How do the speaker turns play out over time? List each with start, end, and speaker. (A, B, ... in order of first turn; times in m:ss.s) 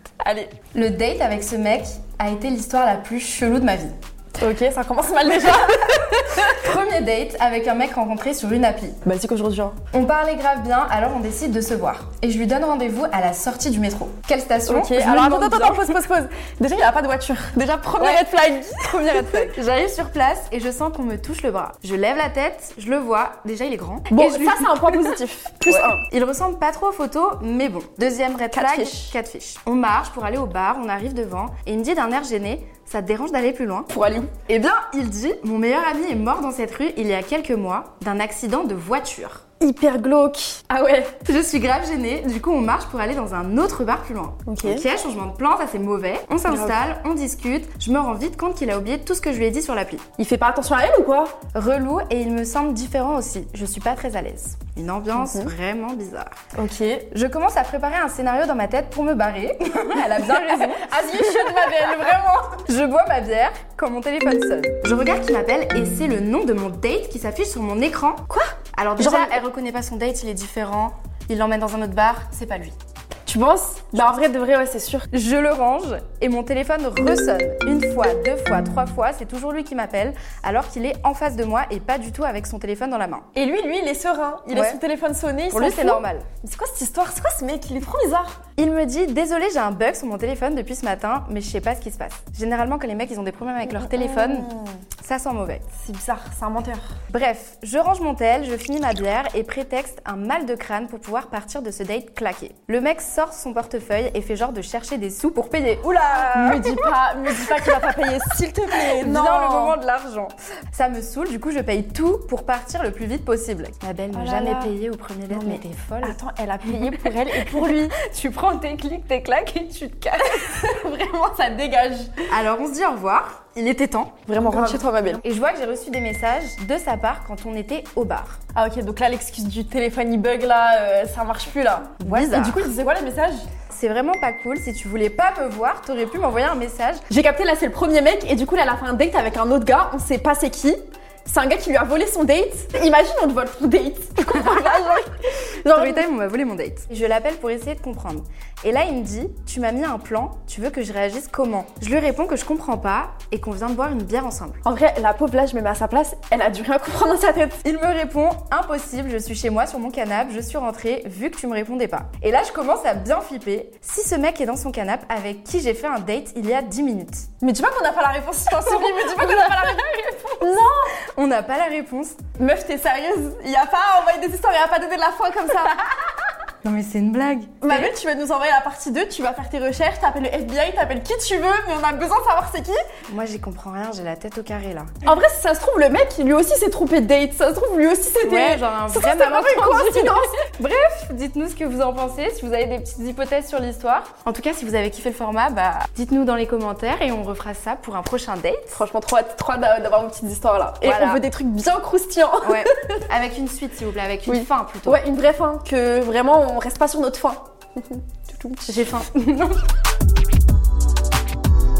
0:00.2-0:00.6 A
0:00.7-0:04.0 B
0:04.4-0:06.6 A
0:06.3-0:09.0 B
0:09.0-0:09.8 A
0:09.9-0:16.0 B
0:14.7-0:19.5 A
0:18.0-0:33.9 B
0:24.1-0:26.0 A
0:28.5-0:29.2 A
0:33.9-0:34.4 A
0:34.5-0:39.4 B
0:39.6-0:41.2 A
0:41.2-0:50.0 B
0:44.5-0:44.8 A
0:46.5-0:46.8 A
0:50.2-0:51.4 A
0:51.5-0:56.3 B
0:55.2-0:55.5 A
0:56.6-0:57.1 A
0:57.1-1:12.8 B
1:00.2-1:02.4 A
1:08.3-1:09.4 A
1:13.3-1:15.1 A
1:15.1-1:23.3 B
1:23.3-1:28.4 A
1:24.5-1:24.8 B
1:25.5-1:26.3 B
1:28.6-1:35.7 B
1:33.7-1:34.8 A
1:35.8-1:36.9 A
1:37.1-1:47.8 B
1:46.1-1:49.8 A
1:48.8-2:00.6 B
1:54.1-1:54.7 A
1:55.3-1:58.0 A
2:00.3-2:02.3 A
2:02.3-2:08.4 B
2:04.3-2:05.2 A
2:08.6-2:13.5 A
2:12.0-2:12.7 B
2:13.7-2:17.0 B
2:17.1-2:26.1 A
2:24.3-2:24.8 B
2:25.7-2:34.6 B
2:34.6-2:37.6 A
2:37.6-2:47.3 B
2:47.4-2:50.9 A
2:48.5-2:52.2 B
2:52.4-2:55.9 A
2:56.6-2:57.9 B
2:57.6-3:02.8 A
3:03.1-3:05.0 B
3:05.0-3:10.4 A
3:08.2-3:18.8 B
3:18.7-3:23.0 A
3:20.8-3:21.2 B
3:22.4-3:25.0 B
3:24.3-3:28.9 A
3:28.7-3:29.6 B